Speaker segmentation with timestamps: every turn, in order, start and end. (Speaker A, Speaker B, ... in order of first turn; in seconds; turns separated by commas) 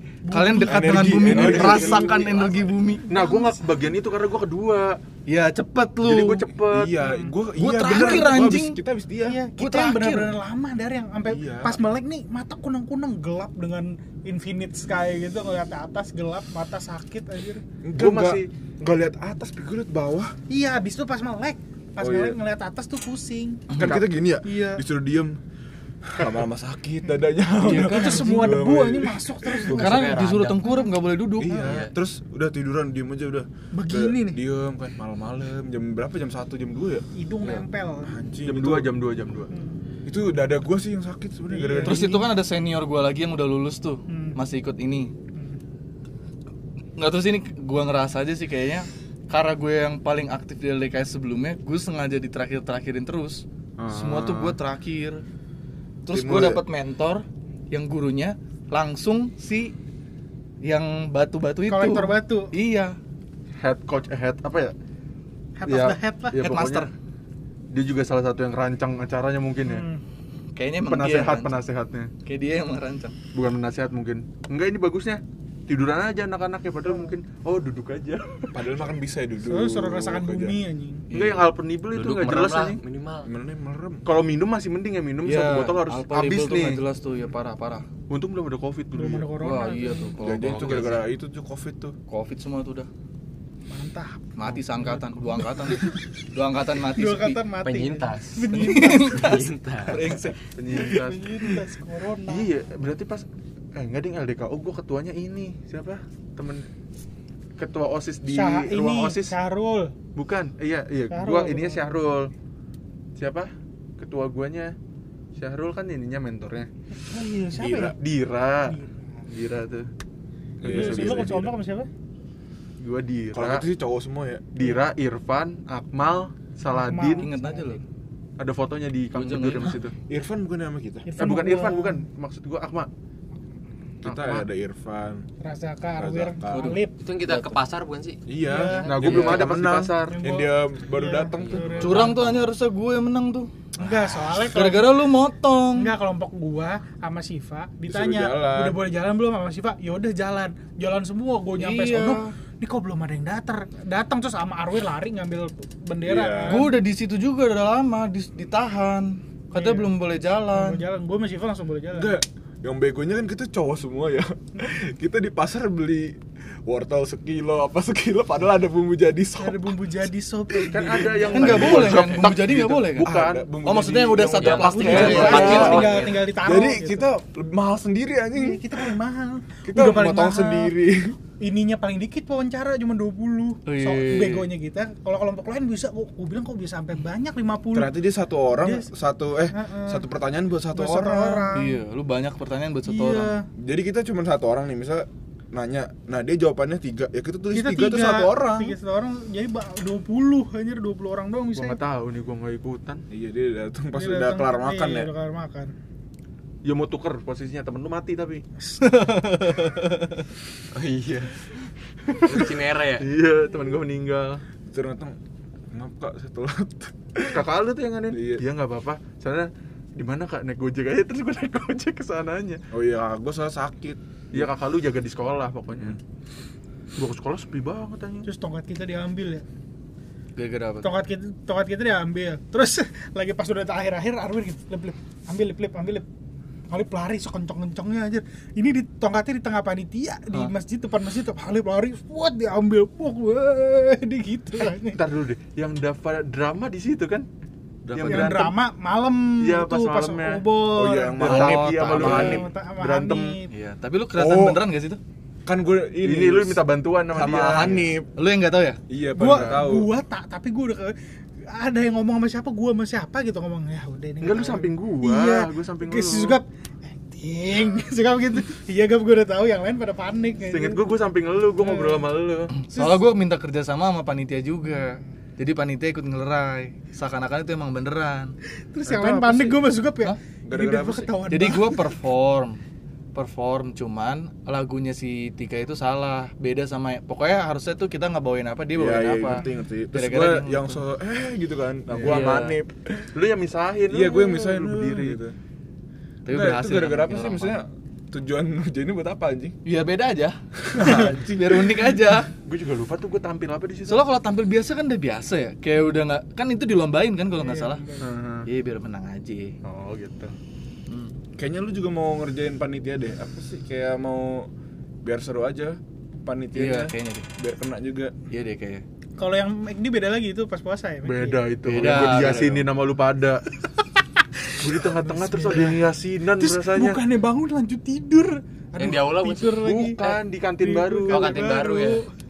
Speaker A: 0.3-3.6, Speaker B: 0.3-3.1, Speaker C: 0.7-2.2, Speaker D: 1.6-2.6, Speaker E: 3.1-5.0, Speaker B: 5.3-6.5, Speaker E: 6.0-6.9, Speaker C: 6.7-9.4, Speaker A: 7.0-7.3, Speaker B: 7.5-8.8, Speaker A: 9.3-17.6, Speaker B: 9.6-10.4, Speaker C: 11.3-11.8, Speaker C: 17.8-20.4, Speaker E: 17.9-18.5, Speaker A: 20.5-24.8, Speaker C: 22.0-22.4, Speaker B: 23.7-24.0, Speaker C: 23.7-25.4, Speaker C: 26.1-30.0, Speaker A: 27.1-30.1, Speaker B: 27.6-28.6, Speaker D: 29.7-30.6, Speaker B: 29.7-31.7, Speaker A: 30.6-30.9, Speaker C: 31.4-37.0, Speaker D: 31.6-31.9, Speaker A: 33.7-34.4, Speaker A: 37.1-38.1, Speaker C: 38.0-38.9, Speaker E: 38.5-39.5, Speaker A: 39.5-39.8, Speaker C: 40.1-42.3, Speaker A: 41.5-42.1, Speaker B: 41.8-45.1, Speaker A: 44.1-44.4, Speaker B: 47.0-55.2, Speaker E: 53.8-54.5, Speaker B: 56.1-59.8, Speaker C: 56.1-56.6, Speaker B: 60.6-63.0, Speaker A: 61.7-62.5, Speaker E: 63.6-64.7, Speaker A: 65.6-66.4, Speaker E: 65.7-66.9, Speaker B: 66.4-66.9, Speaker E: 67.7-69.8, Speaker A: 69.7-70.0, Speaker B: 70.6-71.6, Speaker E: 70.9-72.1, Speaker B: 72.2-73.2, Speaker E: 73.3-78.6, Speaker C: 78.5-80.6, Speaker A: 79.5-81.1, Speaker E: 81.1-82.8, Speaker D: 81.9-83.3, Speaker C: 83.2-84.0, Speaker E: 84.0-86.8, Speaker B: 85.2-87.8, Speaker E: 88.1-89.3, Speaker A: 88.9-90.2, Speaker B: 89.4-91.0, Speaker C: 90.2-92.0, Speaker D: 90.3-91.0, Speaker B: 92.1-92.9, Speaker A: 93.7-94.3, Speaker B: 94.4-97.4, Speaker E: 94.5-95.2, Speaker A: 95.7-95.9, Speaker A: 97.0-99.3, Speaker D: 97.6-98.5, Speaker B: 98.5-100.4, Speaker D: 99.1-100.3, Speaker E: 100.5-101.6, Speaker A: 100.7-102.5, Speaker E: 102.3-106.7, Speaker E: 107.6-109.3, Speaker A: 108.3-109.9, Speaker E: 110.2-112.3, Speaker A: 111.1-111.8, Speaker E: 113.2-114.8, Speaker E: 115.4-116.7, Speaker A: 117.0-118.0, Speaker C: 117.5-118.0, Speaker E: 118.0-118.8, Speaker A: 118.7-119.0, Speaker E: 119.3-119.9, Speaker C: 120.6-121.5, Speaker E: 120.6-121.3, Speaker A: 120.7-121.9, Speaker E: 122.8-123.7, Speaker C: 123.3-124.6, Speaker E: 124.5-127.3, Speaker A: 126.7-127.8, Speaker B: 127.0-127.8, Speaker E: 128.4-129.9, Speaker B: 129.1-129.8, Speaker C: 130.1-131.1, Speaker A: 131.1-132.1, Speaker E: 131.2-132.9, Speaker C: 134.0-135.3, Speaker E: 134.0-134.5, Speaker A: 135.4-137.0, Speaker C: 136.0-136.8, Speaker B: 136.5-137.6, Speaker D: 137.0-138.2, Speaker C: 138.3-142.1, Speaker A: 138.5-142.2, Speaker E: 138.8-140.2, Speaker D: 141.3-142.4, Speaker B: 141.8-143.5, Speaker A: 143.8-145.1, Speaker B: 144.4-145.9, Speaker A: 145.8-156.7, Speaker C: 147.9-148.8, Speaker B: 151.6-152.3, Speaker C: 156.0-156.7, Speaker B: 156.5-160.8, Speaker A: 159.6-159.9, Speaker A: 160.5-162.2, Speaker C: 161.9-170.0, Speaker A: 169.4-172.1, Speaker E: 170.6-173.4, Speaker C: 170.9-172.3, Speaker B: 171.3-173.1, Speaker C: 173.0-175.9, Speaker B: 173.6-175.9, Speaker D: 174.4-176.3, Speaker A: 174.7-177.1, Speaker E: 174.7-176.0, Speaker C: 176.4-178.9, Speaker A: 178.3-180.8, Speaker C: 179.7-181.2, Speaker A: 181.4-188.0, Speaker B: 183.7-184.5, Speaker C: 187.7-191.6, Speaker A: 188.6-188.9, Speaker A: 189.5-190.1, Speaker A: 190.7-191.8, Speaker B: 191.5-193.3, Speaker A: 192.9-193.5, Speaker C: 193.6-198.8, Speaker A: 197.5-201.8, Speaker E: 201.6-203.0, Speaker C: 203.1-205.1, Speaker A: 203.9-205.7, Speaker E: 206.6-208.4, Speaker B: 208.8-210.2, Speaker D: 210.7-211.3, Speaker D: 212.2-213.1, Speaker E: 212.3-214.4, Speaker C: 214.7-215.2, Speaker C: 215.7-217.5, Speaker E: 217.3-222.6, Speaker C: 218.1-218.4, Speaker C: 222.7-224.5, Speaker E: 224.3-226.0, Speaker E: 227.0-228.3, Speaker A: 228.2-229.4, Speaker B: 230.4-230.9, Speaker A: 230.8-236.1, Speaker A: 236.7-245.0, Speaker E: 244.9-247.3, Speaker C: 247.9-248.3, Speaker E: 247.9-248.5, Speaker A: 248.0-251.4, Speaker E: 249.4-250.4, Speaker C: 250.7-252.4, Speaker E: 251.2-253.3, Speaker B: 251.2-252.3, Speaker A: 251.9-253.5, Speaker B: 253.5-255.0, Speaker C: 254.2-254.6, Speaker C: 255.4-258.1, Speaker E: 256.0-257.9, Speaker B: 258.2-258.8, Speaker C: 258.9-259.9, Speaker A: 259.1-260.9, Speaker E: 259.2-259.7, Speaker A: 261.5-270.9, Speaker E: 264.2-266.4, Speaker E: 270.5-272.6, Speaker A: 271.6-272.1, Speaker B: 272.6-278.3, Speaker A: 272.7-273.0, Speaker A: 278.7-281.9, Speaker C: 279.0-279.5, Speaker C: 280.4-281.1, Speaker B: 281.3-282.6, Speaker B: 283.1-290.8, Speaker C: 288.8-293.1, Speaker E: 291.9-292.6, Speaker D: 292.1-292.6, Speaker E: 293.1-295.2, Speaker C: 293.9-295.3, Speaker B: 296.2-297.6, Speaker C: 296.3-299.6, Speaker B: 299.7-302.3, Speaker C: 300.6-301.9, Speaker E: 302.4-304.0, Speaker B: 303.9-307.8, Speaker A: 307.4-308.1, Speaker E: 308.0-308.5, Speaker B: 308.5-309.6, Speaker E: 309.6-310.4, Speaker C: 311.4-314.5, Speaker C: 315.0-318.2, Speaker B: 316.5-317.3, Speaker B: 318.3-318.8, Speaker A: 319.2-321.5, Speaker E: 321.1-323.4, Speaker B: 321.6-322.7, Speaker C: 321.8-322.1, Speaker A: 324.2-325.8, Speaker E: 324.6-327.0, Speaker A: 326.4-330.0, Speaker D: 328.8-330.2, Speaker E: 329.6-331.6, Speaker A: 330.6-332.1, Speaker D: 331.1-332.0